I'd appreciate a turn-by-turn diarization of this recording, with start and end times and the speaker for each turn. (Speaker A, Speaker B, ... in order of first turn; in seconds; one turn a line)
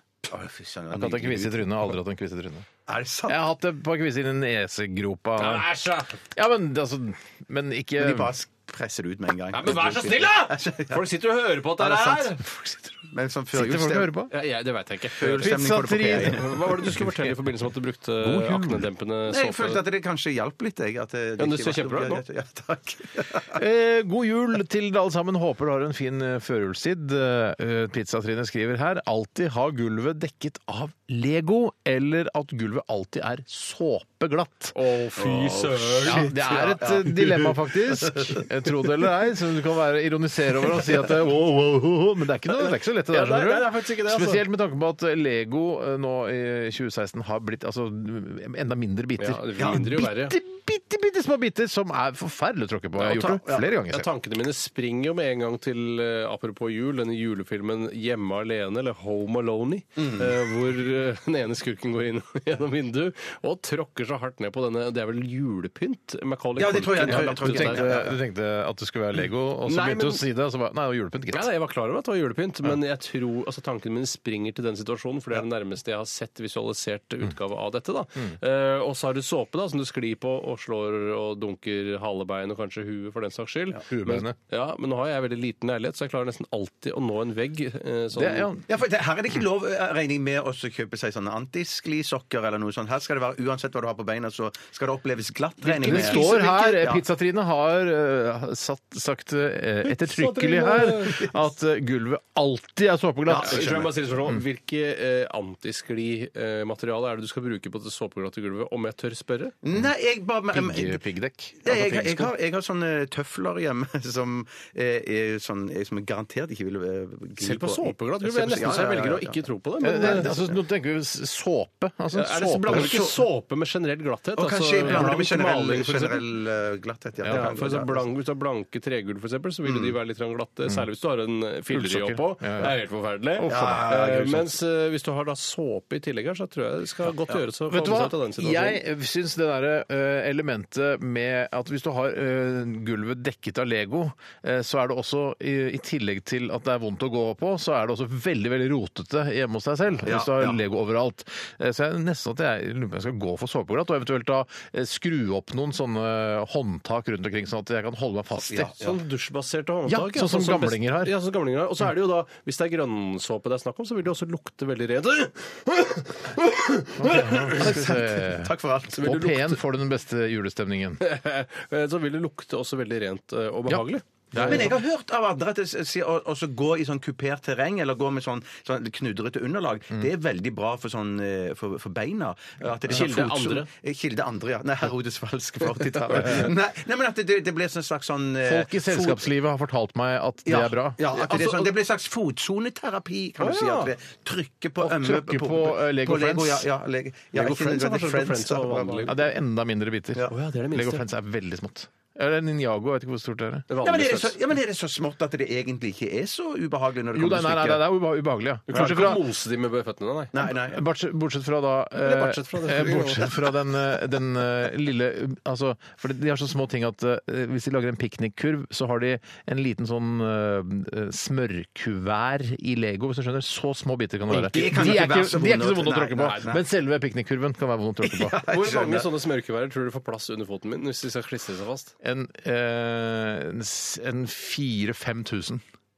Speaker A: 0.2-1.8
Speaker B: 0.9-2.6
Speaker A: 2.9-3.4
Speaker B: 3.3-5.7
Speaker C: 5.4-6.2
Speaker B: 6.3-8.3
Speaker A: 8.0-11.0
Speaker C: 9.5-12.4
Speaker A: 11.8-12.3
Speaker B: 12.4-14.3
Speaker A: 13.1-14.2
Speaker C: 14.3-19.8
Speaker A: 15.2-16.7
Speaker B: 15.2-17.5
Speaker B: 18.2-18.9
Speaker A: 19.3-23.6
Speaker C: 21.4-22.2
Speaker B: 23.5-34.7
Speaker C: 34.7-36.8
Speaker A: 35.2-38.4
Speaker B: 36.0-54.1
Speaker C: 43.1-44.4
Speaker C: 49.2-50.4
Speaker A: 49.6-49.8
Speaker C: 53.0-67.9
Speaker A: 60.0-60.3
Speaker A: 66.5-68.2
Speaker B: 67.0-71.5
Speaker C: 69.6-70.2
Speaker C: 71.3-88.5
Speaker B: 83.8-84.3
Speaker B: 88.1-88.6
Speaker A: 88.7-97.0
Speaker C: 95.6-96.5
Speaker B: 95.8-104.4
Speaker C: 99.8-101.2
Speaker A: 103.3-103.9
Speaker C: 103.4-109.5
Speaker A: 109.6-111.0
Speaker B: 110.5-112.3
Speaker A: 111.6-120.5
Speaker C: 117.4-120.3
Speaker B: 119.8-123.0
Speaker C: 122.1-126.2
Speaker A: 122.7-123.2
Speaker A: 124.3-128.0
Speaker B: 124.8-125.1
Speaker B: 127.2-127.6
Speaker C: 127.3-138.8
Speaker A: 129.6-129.9
Speaker B: 131.7-132.7
Speaker B: 133.3-133.9
Speaker A: 133.5-134.5
Speaker B: 137.7-158.7
Speaker A: 150.0-150.6
Speaker A: 158.5-159.0
Speaker C: 158.8-167.8
Speaker B: 159.9-161.1
Speaker B: 167.0-171.0
Speaker A: 167.4-169.0
Speaker C: 168.9-169.6
Speaker C: 171.0-174.7
Speaker B: 173.7-174.8
Speaker A: 174.4-189.3
Speaker C: 182.9-183.7
Speaker B: 186.1-186.5
Speaker B: 188.4-191.5
Speaker A: 190.4-199.2
Speaker C: 191.2-191.6
Speaker C: 193.4-193.9
Speaker B: 194.8-196.7
Speaker C: 197.3-199.1
Speaker B: 199.1-203.7
Speaker C: 200.3-201.0
Speaker C: 203.7-204.4
Speaker A: 203.8-207.9
Speaker B: 207.1-209.2
Speaker C: 208.7-210.3
Speaker A: 210.3-210.8
Speaker B: 210.4-228.4
Speaker C: 212.0-213.3
Speaker A: 224.3-226.6
Speaker C: 224.3-224.9
Speaker A: 228.0-229.1
Speaker C: 228.4-231.9
Speaker B: 232.0-235.6